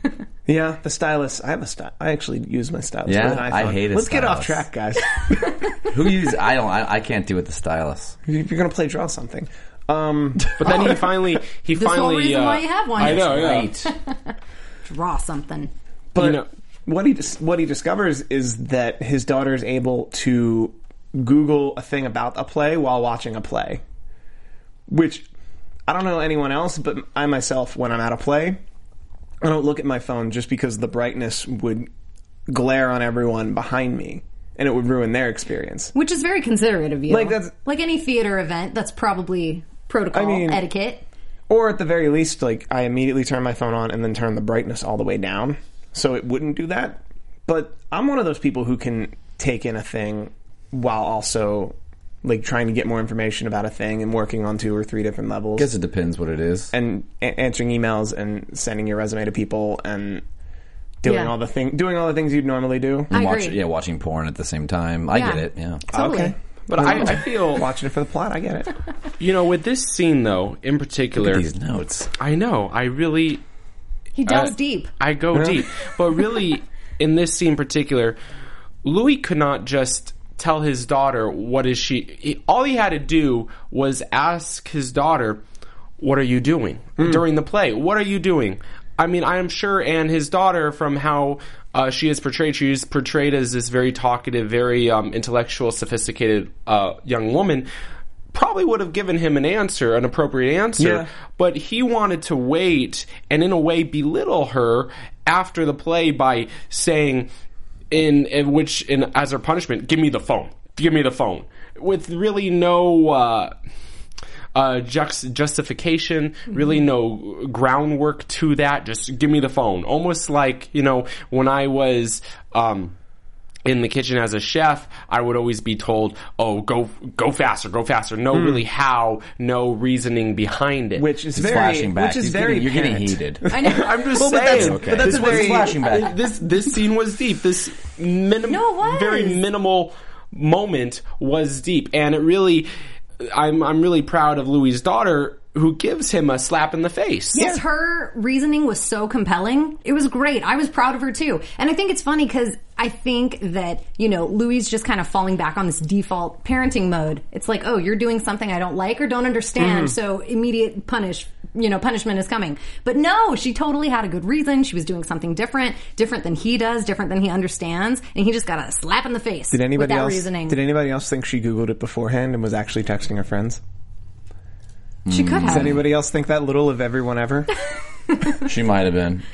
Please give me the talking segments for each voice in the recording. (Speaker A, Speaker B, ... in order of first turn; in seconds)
Speaker A: 0.5-5.5, 8.3-11.0, 16.1-23.8, 24.9-25.3, 25.9-28.6, 29.4-31.9, 32.5-35.9, 37.1-37.5, 40.1-40.6, 41.5-55.7, 56.7-60.2, 61.0-63.1, 65.9-68.7, 75.3-75.6, 100.8-101.1, 128.3-128.6, 131.0-135.8, 147.4-147.6, 159.6-159.9, 169.5-173.6, 175.5-177.5
Speaker B: 3.1-4.7, 5.9-8.2, 13.0-13.9, 55.6-56.7, 63.1-65.8, 71.2-72.1, 131.4-133.5, 134.4-136.2, 175.1-175.8, 178.4-179.2
Speaker C: 10.6-13.7, 16.2-16.5, 66.7-67.7, 69.2-71.4, 72.2-73.4, 74.3-78.2, 78.8-85.4, 86.0-97.7, 98.3-107.3, 107.9-113.5, 114.5-123.0, 123.7-131.1, 133.6-142.7, 143.2-147.4
Speaker D: 11.7-14.3, 14.9-15.7, 35.9-41.0, 61.0-61.4, 63.1-63.6, 65.1-66.3, 74.2-74.9, 133.5-134.1, 138.5-139.4, 147.3-170.6, 175.1-175.8